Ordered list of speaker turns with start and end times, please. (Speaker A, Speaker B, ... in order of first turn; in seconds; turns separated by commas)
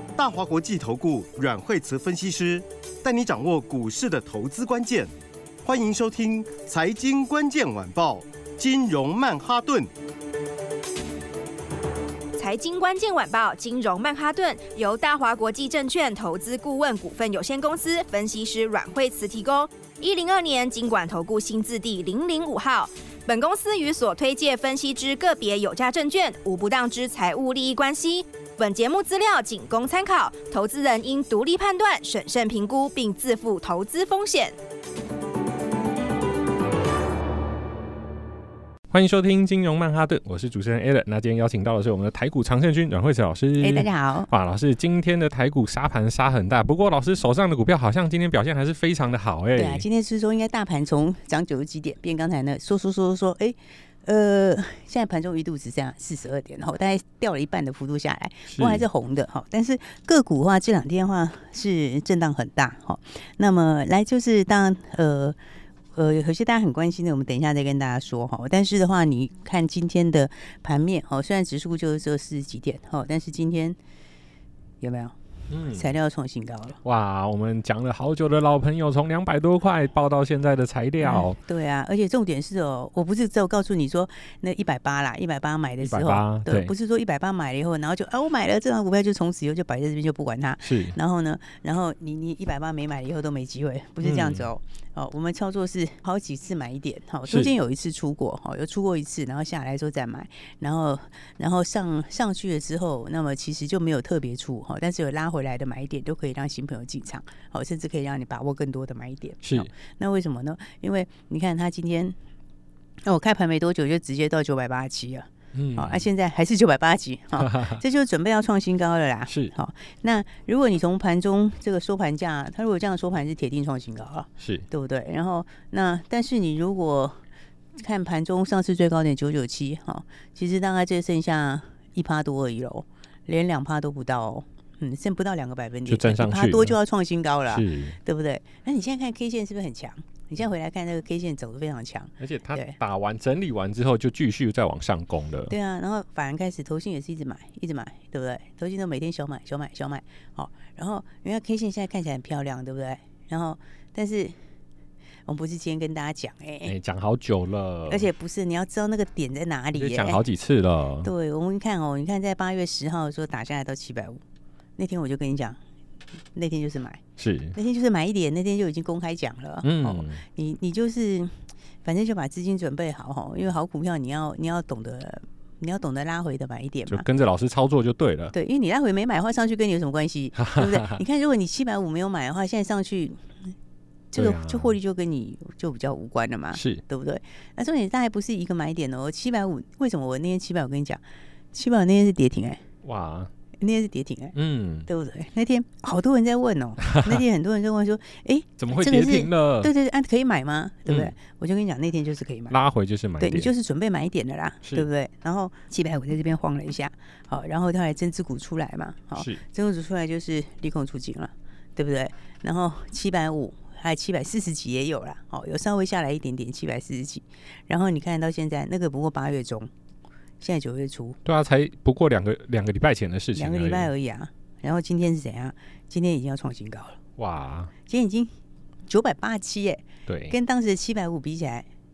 Speaker A: 0.2-5.1, Speaker A: 5.6-9.9, Speaker B: 12.4-34.6, Speaker C: 38.9-49.9, Speaker D: 43.6-44.3, Speaker D: 49.5-65.4, Speaker C: 58.5-58.9, Speaker D: 65.9-73.8, Speaker D: 74.8-75.2, Speaker C: 75.5-75.9, Speaker D: 75.7-76.8, Speaker C: 76.8-81.4, Speaker D: 81.0-112.2, Speaker C: 85.8-86.7, Speaker C: 90.6-91.0, Speaker C: 94.0-94.5, Speaker C: 97.3-97.5, Speaker C: 109.4-109.7, Speaker D: 113.1-127.2, Speaker C: 115.5-116.1, Speaker C: 117.4-117.8, Speaker C: 119.3-119.5, Speaker C: 124.4-124.7, Speaker D: 127.8-142.8, Speaker C: 135.9-136.8, Speaker C: 137.5-138.0, Speaker C: 142.2-145.5, Speaker D: 145.5-154.4, Speaker D: 155.3-156.7, Speaker C: 156.6-158.1, Speaker D: 157.9-160.2, Speaker C: 159.7-161.1, Speaker D: 161.0-164.2, Speaker D: 164.8-165.6, Speaker D: 166.3-167.0, Speaker C: 167.2-167.6, Speaker D: 167.5-177.0, Speaker C: 169.6-170.2, Speaker C: 176.9-178.3, Speaker D: 178.3-183.3, Speaker C: 180.4-181.0, Speaker D: 184.1-191.0, Speaker C: 184.2-184.8, Speaker C: 186.5-186.8, Speaker D: 191.5-192.6, Speaker C: 192.8-193.3, Speaker D: 193.6-194.3, Speaker C: 194.3-194.9, Speaker D: 194.9-202.6, Speaker C: 196.8-197.2, Speaker C: 198.6-199.7, Speaker C: 200.9-201.1, Speaker C: 202.5-203.5, Speaker D: 203.2-219.7, Speaker C: 209.2-209.4, Speaker D: 220.4-221.2, Speaker C: 221.2-223.9, Speaker D: 223.4-227.0, Speaker C: 227.2-227.7, Speaker D: 227.9-228.3, Speaker D: 228.9-231.7, Speaker C: 230.1-230.3